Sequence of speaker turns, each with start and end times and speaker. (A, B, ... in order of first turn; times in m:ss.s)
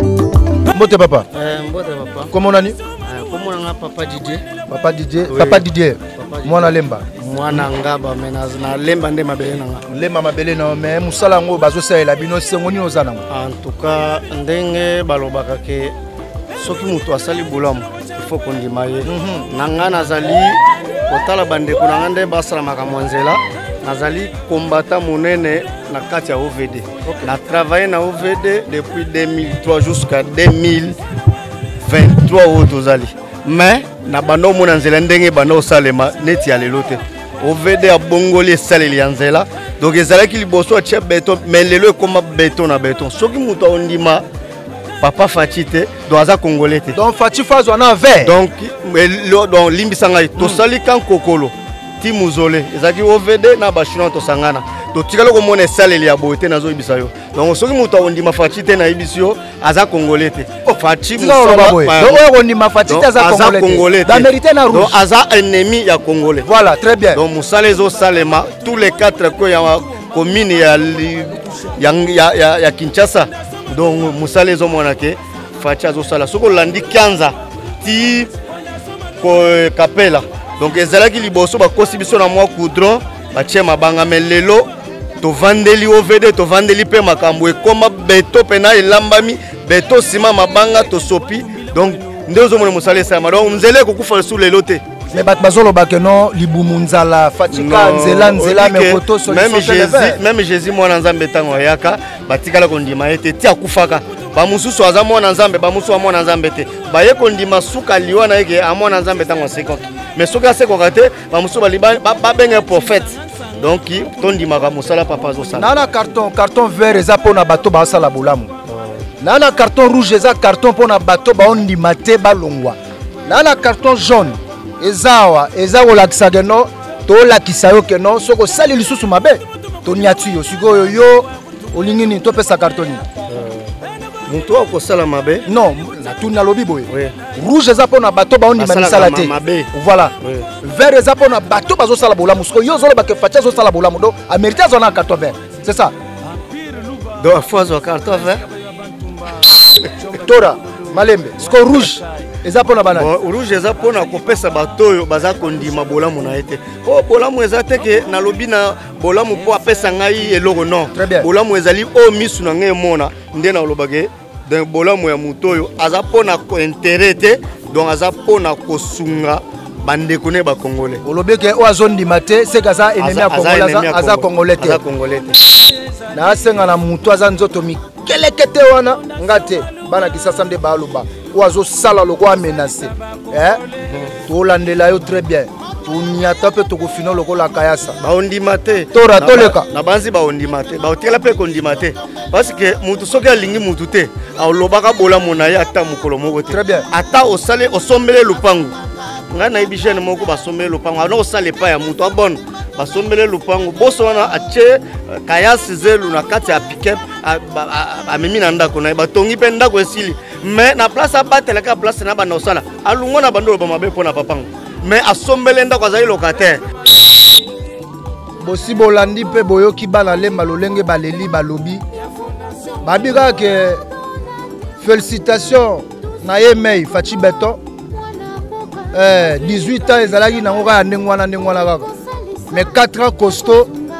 0:00.7-0:01.3 A
0:01.3-0:02.3 B
0:02.3-0:02.8 A
0:03.0-0:04.4 B
0:04.7-0:07.6 A
0:05.3-0:05.6 B
0:06.1-0:09.8 B
0:09.9-0:13.2 A
0:13.3-0:15.9 B
0:16.6-0:30.9 B
0:19.0-0:19.5 A
0:27.0-0:27.3 A
0:31.9-0:44.2 B
0:45.0-0:47.0 B
0:46.9-0:48.4 A
0:48.2-1:02.2 B
0:50.4-0:50.6 A
1:01.2-1:05.0 A
1:02.9-1:06.5 B
1:06.4-1:07.2 A
1:07.1-1:18.3 B
1:19.2-1:24.7 B
1:25.2-1:34.8 B
1:35.1-1:40.2 A
1:37.5-1:55.7 B
1:55.5-1:58.5 A
1:58.7-1:59.0 B
1:59.2-2:13.0 A
2:13.3-2:13.7 B
2:14.3-2:15.4 B
2:15.4-2:25.9 A
2:16.9-2:17.2 B
2:18.6-2:19.7 B
2:20.2-2:20.5 B
2:27.2-2:28.4 B
2:30.1-2:33.1 A
2:32.9-2:51.0 B
2:40.9-2:41.3 A
2:51.0-2:54.8 A
2:53.0-2:55.4 B
2:56.1-3:03.6 A
3:04.2-3:08.0 A
3:08.0-3:18.7 B
3:08.9-3:09.7 A
3:16.5-3:16.9 A
3:19.3-3:36.6 B
3:38.4-3:41.8 A
3:42.8-3:43.8 A
3:44.8-3:47.6 A
3:48.9-3:51.9 A
3:52.5-3:53.7 A